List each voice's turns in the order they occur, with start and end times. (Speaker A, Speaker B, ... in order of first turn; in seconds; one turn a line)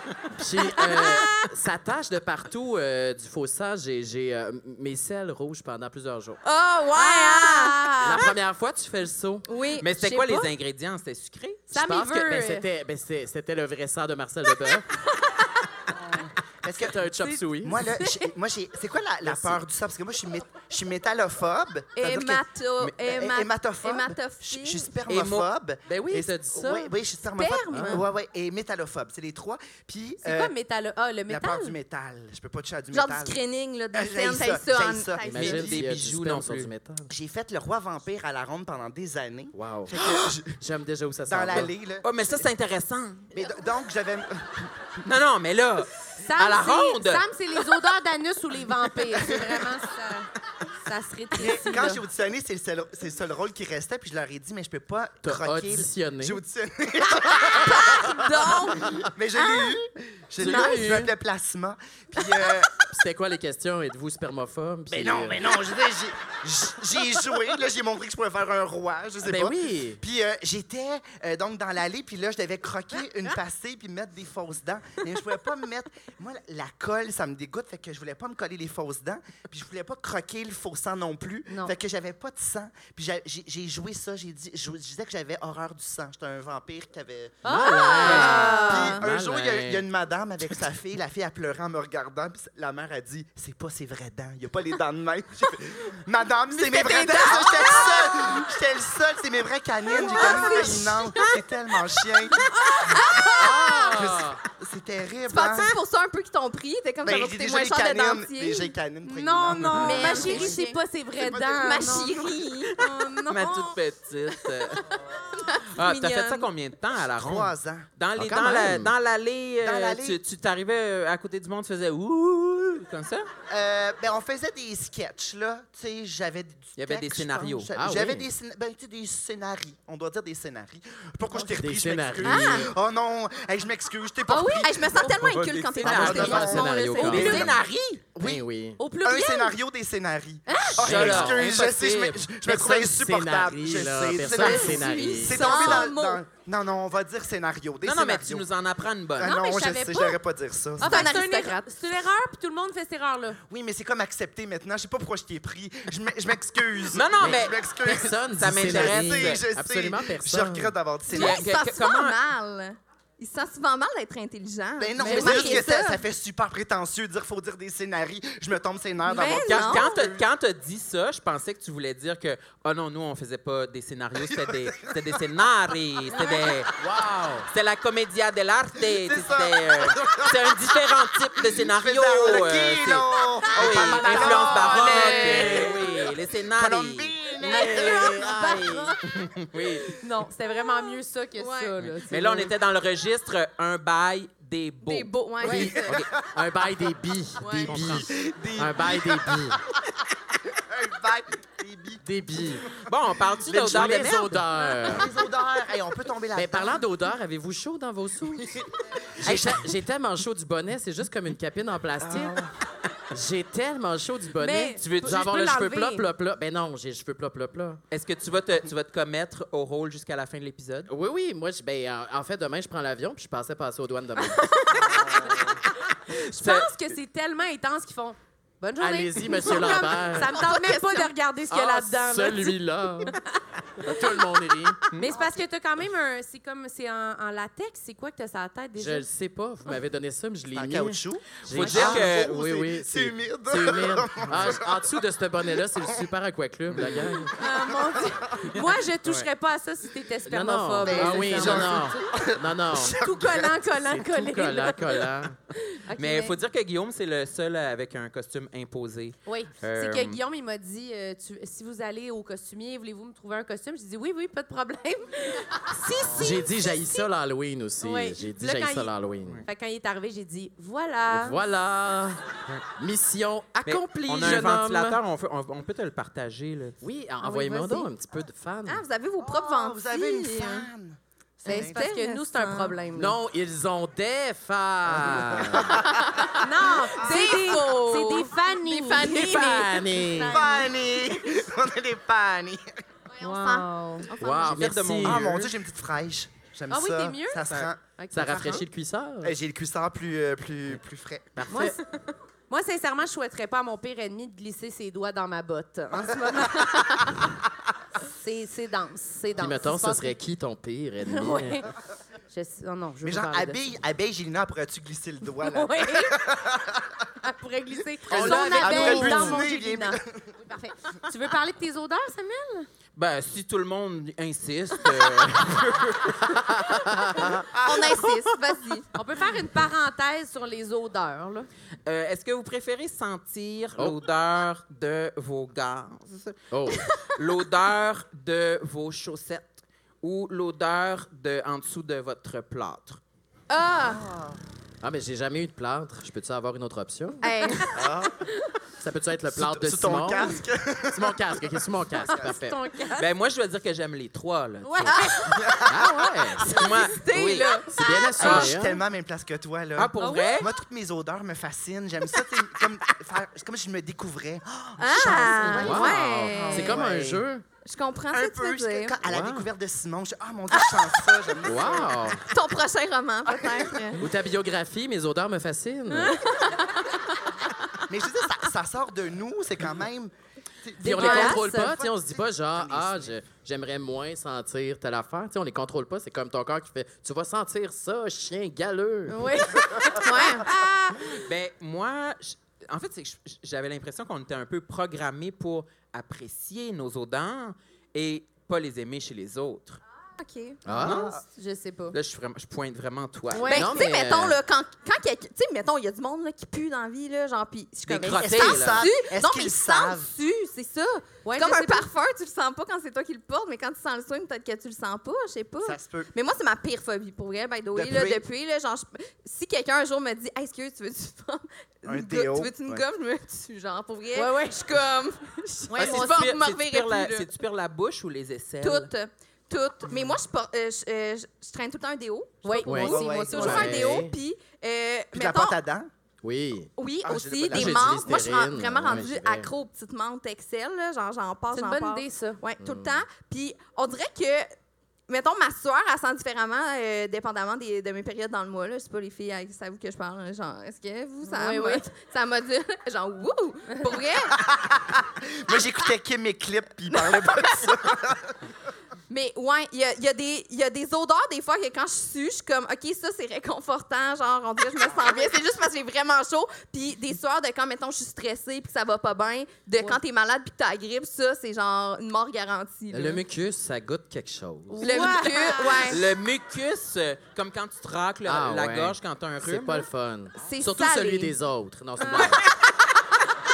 Speaker A: 0.3-6.4
Speaker B: 0.8-1.5
Speaker B: 6.4-8.3
Speaker C: 6.9-8.3
Speaker A: 8.0-9.5
Speaker B: 9.5-10.5
Speaker D: 9.8-11.7
Speaker C: 11.7-12.7
Speaker A: 11.7-14.9
Speaker E: 16.6-22.4
Speaker A: 16.8-17.8
Speaker C: 17.2-18.3
Speaker A: 19.3-19.6
Speaker B: 22.0-24.9
Speaker E: 23.0-30.6
Speaker D: 25.1-25.5
Speaker A: 25.9-26.9
Speaker B: 27.4-28.1
Speaker A: 27.7-28.0
Speaker C: 30.2-31.8
Speaker E: 31.3-33.4
Speaker B: 32.9-35.7
Speaker E: 33.9-35.7
Speaker A: 35.2-37.1
Speaker D: 35.4-36.7
Speaker E: 37.1-40.6
Speaker A: 39.5-41.7
Speaker E: 41.3-42.5
Speaker D: 42.0-43.3
Speaker E: 43.3-44.9
Speaker D: 45.0-47.3
Speaker C: 46.2-50.3
Speaker E: 49.1-49.7
Speaker C: 50.9-52.0
Speaker E: 51.3-58.5
Speaker A: 55.2-56.4
Speaker B: 57.2-59.9
Speaker E: 59.0-62.8
Speaker A: 60.4-61.1
Speaker B: 60.4-60.8
Speaker A: 62.9-65.5
Speaker E: 64.9-87.4
Speaker A: 69.2-70.0
Speaker C: 81.5-81.7
Speaker C: 87.4-89.0
Speaker A: 87.5-89.8
Speaker E: 88.0-102.5
Speaker C: 96.5-98.3
Speaker C: 100.0-101.4
Speaker B: 100.0-101.2
Speaker C: 102.5-103.7
Speaker B: 102.6-104.0
Speaker A: 103.4-104.4
Speaker E: 103.9-105.8
Speaker B: 105.3-108.7
Speaker E: 107.0-110.6
Speaker C: 109.1-113.8
Speaker B: 109.7-113.6
Speaker D: 113.3-114.9
Speaker B: 115.3-116.5
Speaker D: 115.8-123.3
Speaker E: 117.1-117.9
Speaker A: 118.2-118.9
Speaker E: 119.6-120.2
Speaker E: 123.5-148.5
Speaker D: 126.8-127.7
Speaker A: 127.7-128.3
Speaker A: 131.4-132.7
Speaker B: 132.2-132.7
Speaker B: 134.3-137.5
Speaker D: 135.0-138.0
Speaker A: 135.8-137.6
Speaker C: 136.9-137.5
Speaker A: 138.2-138.8
Speaker C: 138.8-139.6
Speaker C: 140.5-140.9
Speaker D: 140.8-142.2
Speaker A: 140.8-145.9
Speaker B: 144.3-146.2
Speaker D: 147.8-149.4
Speaker E: 149.2-151.1
Speaker C: 149.2-150.2
Speaker C: 150.8-153.4
Speaker B: 150.8-151.7
Speaker E: 153.5-161.5
Speaker D: 156.9-157.7
Speaker A: 157.2-160.8
Speaker D: 158.3-159.4
Speaker B: 161.1-166.0
Speaker D: 161.1-162.2
Speaker E: 164.8-170.3
Speaker C: 165.0-165.7
Speaker B: 169.1-170.0
Speaker D: 169.3-176.8
Speaker E: 174.2-175.2
Speaker B: 176.1-176.5
Speaker A: 176.8-177.5
Speaker D: 177.5-187.2
Speaker E: 178.8-185.8
Speaker A: 183.8-185.8
Speaker C: 183.8-185.6
Speaker E: 186.5-188.3
Speaker C: 187.4-189.0
Speaker A: 187.6-188.9
Speaker D: 189.0-190.0
Speaker C: 189.9-192.5
Speaker B: 191.4-191.7
Speaker D: 191.8-196.1
Speaker B: 194.8-196.0
Speaker A: 195.4-199.6
Speaker E: 195.9-196.2
Speaker B: 197.4-198.0
Speaker E: 197.7-199.6
Speaker E: 200.5-202.7
Speaker A: 202.0-202.7
Speaker D: 202.8-204.4
Speaker E: 203.3-204.2
Speaker A: 203.6-205.1
Speaker E: 204.8-206.8
Speaker A: 206.3-208.6
Speaker E: 208.4-209.7
Speaker A: 209.2-212.4
Speaker E: 212.0-212.5
Speaker A: 213.1-217.8
Speaker C: 214.4-216.1
Speaker D: 214.8-215.2
Speaker D: 217.9-220.9
Speaker A: 220.9-224.6
Speaker C: 224.2-225.4
Speaker E: 224.9-225.4
Speaker D: 225.2-225.5
Speaker C: 225.9-233.3
Speaker D: 226.1-226.7
Speaker A: 228.8-230.5
Speaker B: 230.4-231.1
Speaker A: 231.5-233.2
Speaker A: 233.8-234.8
Speaker C: 234.9-239.1
Speaker A: 238.8-247.3
Speaker E: 240.5-244.9
Speaker D: 241.5-242.4
Speaker C: 241.6-242.0
Speaker E: 245.8-246.1
Speaker E: 246.8-248.3
Speaker C: 247.3-251.8
Speaker A: 250.3-253.0
Speaker E: 250.8-253.7
Speaker C: 252.9-255.1
Speaker A: 253.7-255.4
Speaker C: 255.6-256.4
Speaker D: 255.9-260.2
Speaker C: 259.2-267.1
Speaker A: 266.1-269.4
Speaker C: 267.8-271.4
Speaker A: 271.1-275.0
Speaker D: 273.6-276.8
Speaker A: 276.8-278.8
Speaker C: 277.2-277.9
Speaker B: 278.7-280.7
Speaker E: 279.2-281.9
Speaker C: 281.5-283.2
Speaker B: 281.5-282.8
Speaker A: 282.9-285.8
Speaker E: 284.9-286.2
Speaker B: 285.7-290.5
Speaker C: 286.4-290.3
Speaker A: 289.0-290.4
Speaker E: 290.3-292.8
Speaker B: 293.1-294.7
Speaker C: 293.2-294.1
Speaker A: 294.2-295.2
Speaker D: 294.5-295.5
Speaker E: 295.0-297.8
Speaker C: 296.7-298.6
Speaker A: 298.1-299.4
Speaker E: 299.2-301.5
Speaker A: 301.4-301.8
Speaker C: 301.5-301.8
Speaker C: 302.5-307.2
Speaker C: 308.0-310.1
Speaker A: 309.4-311.6
Speaker C: 311.1-311.7
Speaker C: 312.3-313.6
Speaker E: 313.0-317.1
Speaker C: 315.4-316.2
Speaker C: 317.2-322.7
Speaker E: 318.1-320.3
Speaker A: 318.1-319.4
Speaker D: 323.0-326.4
Speaker A: 326.3-327.4
Speaker E: 327.2-328.1
Speaker B: 327.6-328.9
Speaker C: 328.9-331.5
Speaker D: 331.9-336.5
Speaker A: 336.5-336.9
Speaker D: 337.0-343.0
Speaker C: 343.5-344.0
Speaker E: 343.8-344.4
Speaker A: 344.8-347.2
Speaker B: 347.2-347.7
Speaker C: 347.3-347.7
Speaker E: 347.8-348.2
Speaker A: 348.8-350.4
Speaker E: 349.3-352.3
Speaker A: 350.9-352.6
Speaker C: 352.1-353.1
Speaker D: 352.9-355.1
Speaker C: 354.6-355.4
Speaker B: 354.9-355.4
Speaker E: 355.3-356.0
Speaker A: 355.7-356.5
Speaker B: 356.4-358.5
Speaker D: 356.4-357.6
Speaker A: 357.7-358.8
Speaker E: 358.1-367.3
Speaker D: 358.2-358.5
Speaker D: 359.8-360.5
Speaker C: 360.0-360.5
Speaker B: 364.8-366.8
Speaker A: 365.3-367.4
Speaker C: 365.5-365.9
Speaker B: 367.6-369.0
Speaker E: 368.1-372.2
Speaker A: 369.1-369.5
Speaker B: 370.5-371.1
Speaker A: 371.4-372.3
Speaker B: 372.3-374.0
Speaker E: 373.3-373.9
Speaker A: 374.0-376.2
Speaker C: 375.9-376.2
Speaker B: 376.2-377.2
Speaker E: 377.9-383.1
Speaker C: 380.8-381.7
Speaker A: 380.8-389.3
Speaker B: 381.0-381.4
Speaker C: 389.1-391.2
Speaker B: 390.0-390.5
Speaker D: 391.1-399.8
Speaker B: 400.2-400.6
Speaker A: 400.6-401.1
Speaker E: 400.7-401.2
Speaker D: 400.8-401.1
Speaker C: 401.1-402.0
Speaker D: 401.9-403.6
Speaker C: 403.3-403.7
Speaker B: 403.5-427.3
Speaker A: 403.5-404.4
Speaker D: 407.9-408.9
Speaker E: 408.0-410.1
Speaker C: 411.2-411.9
Speaker E: 415.6-416.1
Speaker E: 417.7-418.2
Speaker E: 421.9-422.9
Speaker C: 424.1-424.7
Speaker C: 425.7-426.2
Speaker D: 425.8-428.9
Speaker B: 428.6-435.6
Speaker C: 432.4-433.9
Speaker A: 432.7-434.1
Speaker E: 432.7-433.9
Speaker E: 435.1-435.9
Speaker A: 436.2-436.7
Speaker B: 436.8-444.5
Speaker E: 437.0-438.1
Speaker A: 437.5-439.5
Speaker D: 437.6-437.8
Speaker C: 441.5-442.4
Speaker A: 442.6-443.1
Speaker B: 445.1-454.4
Speaker C: 451.2-451.9
Speaker E: 454.3-458.4
Speaker B: 457.0-457.7
Speaker B: 459.1-473.2
Speaker A: 472.9-475.0
Speaker C: 474.7-476.0
Speaker B: 474.8-476.1
Speaker D: 475.8-479.9
Speaker A: 478.2-482.5
Speaker B: 480.4-481.4
Speaker C: 482.0-482.4